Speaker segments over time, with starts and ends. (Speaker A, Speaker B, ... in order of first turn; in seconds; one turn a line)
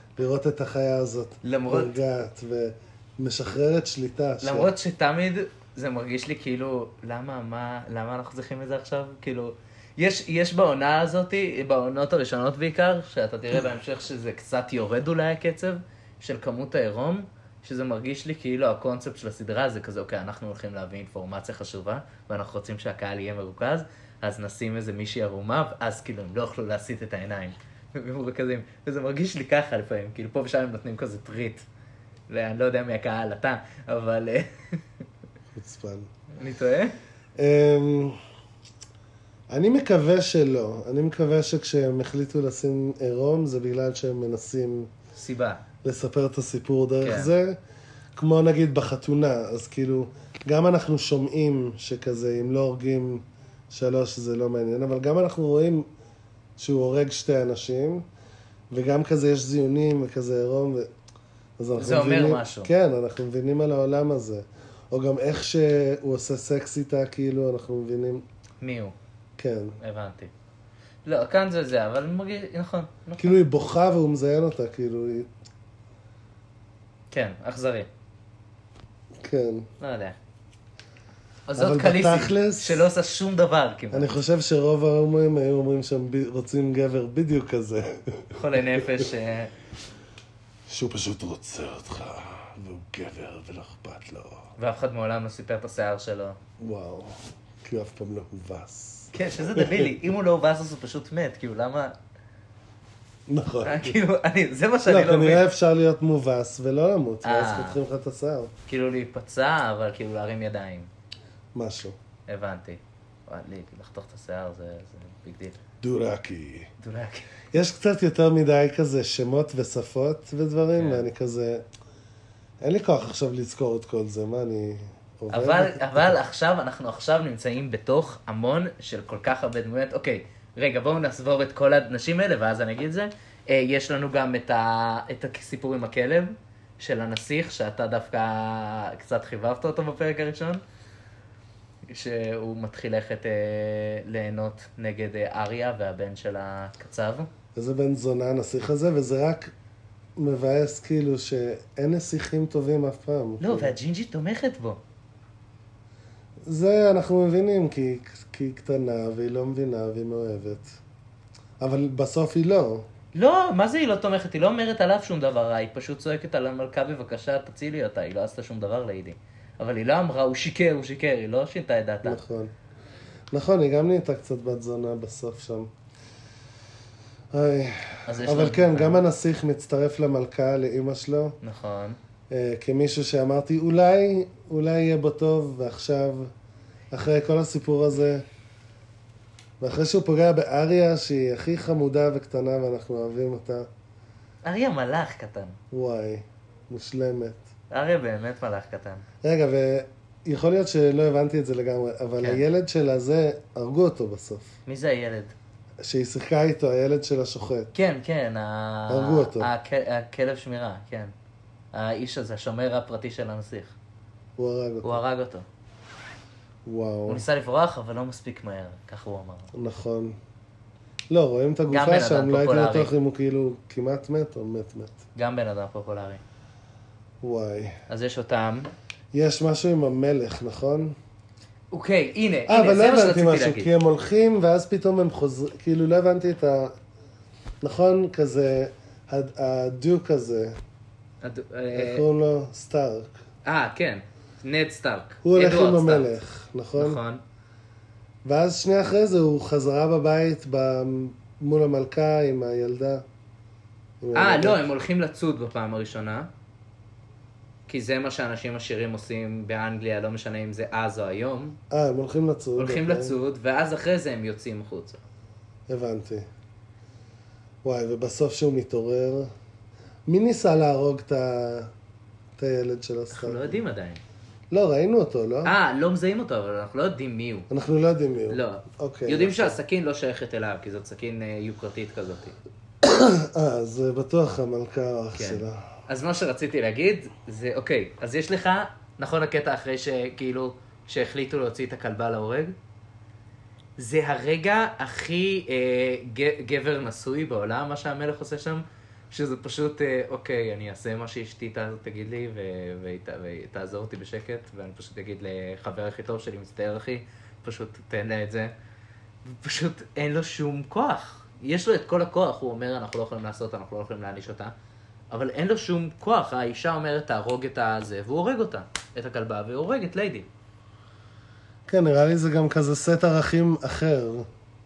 Speaker A: 0.2-4.7
Speaker B: 1.4-2.0
Speaker B: 4.4-31.6
Speaker B: 32.3-34.9
Speaker A: 35.5-36.1
Speaker B: 36.4-37.0
Speaker A: 37.4-38.2
Speaker A: 39.5-44.9
Speaker B: 45.1-45.6
Speaker A: 45.8-47.6
Speaker B: 47.0-47.3
Speaker A: 48.2-55.9
Speaker A: 56.6-58.0
Speaker A: 58.7-60.9
Speaker A: 61.6-68.2
Speaker B: 61.8-62.7
Speaker B: 68.6-69.0
Speaker A: 69.4-69.8
Speaker B: 69.8-70.3
Speaker B: 71.0-73.4
Speaker A: 73.2-75.3
Speaker B: 77.1-77.9
Speaker A: 79.2-79.7
Speaker B: 79.8-80.2
Speaker B: 81.5-84.2
Speaker A: 81.6-82.8
Speaker A: 83.9-89.1
Speaker B: 88.3-89.5
Speaker A: 90.7-94.4
Speaker B: 94.6-96.4
Speaker A: 96.6-99.9
Speaker B: 99.1-102.0
Speaker A: 103.3-104.0
Speaker B: 103.7-105.5
Speaker A: 104.9-108.5
Speaker B: 107.2-107.8
Speaker B: 108.7-110.9
Speaker A: 111.5-112.0
Speaker B: 112.3-115.6
Speaker A: 115.8-116.7
Speaker B: 116.8-117.3
Speaker A: 117.5-121.7
Speaker B: 120.8-121.1
Speaker A: 122.6-126.2
Speaker B: 125.3-140.6
Speaker B: 141.9-147.3
Speaker A: 147.6-149.5
Speaker A: 150.2-153.8
Speaker B: 153.4-154.8
Speaker A: 156.4-160.8
Speaker A: 161.6-162.9
Speaker B: 163.1-172.2
Speaker A: 172.0-172.5
Speaker A: 173.3-175.7
Speaker A: 177.3-181.4
Speaker B: 178.1-179.0
Speaker B: 181.4-182.0
Speaker A: 182.3-186.3
Speaker A: 186.9-188.2
Speaker A: 189.6-193.7
Speaker B: 194.4-195.6
Speaker A: 195.7-197.4
Speaker B: 197.7-199.1
Speaker A: 199.2-204.5
Speaker B: 204.7-205.3
Speaker A: 205.8-207.7
Speaker B: 207.7-211.1
Speaker A: 208.9-209.5
Speaker B: 211.7-213.8
Speaker A: 214.4-215.0
Speaker B: 214.8-215.5
Speaker A: 216.7-217.2
Speaker B: 217.1-219.5
Speaker A: 219.5-220.2
Speaker A: 221.1-225.0
Speaker B: 221.7-222.9
Speaker B: 225.2-226.2
Speaker A: 227.2-227.8
Speaker B: 227.9-228.7
Speaker A: 229.1-230.9
Speaker B: 231.7-233.7
Speaker A: 232.5-236.8
Speaker A: 237.6-240.6
Speaker B: 241.2-242.0
Speaker A: 241.7-243.1
Speaker B: 243.4-246.1
Speaker A: 245.2-247.0
Speaker B: 246.8-247.2
Speaker A: 248.2-253.0
Speaker A: 254.0-254.7
Speaker B: 254.2-256.3
Speaker B: 257.7-261.6
Speaker A: 261.7-263.2
Speaker B: 262.6-265.0
Speaker A: 265.7-266.3
Speaker A: 267.6-269.3
Speaker A: 270.1-271.7
Speaker A: 272.4-273.6
Speaker B: 273.1-274.0
Speaker A: 274.5-275.5
Speaker B: 275.4-277.5
Speaker A: 277.5-279.6
Speaker B: 278.3-282.4
Speaker A: 282.8-285.6
Speaker B: 285.2-292.5
Speaker B: 293.8-308.5
Speaker B: 309.2-314.5
Speaker B: 315.1-320.3
Speaker A: 321.7-324.3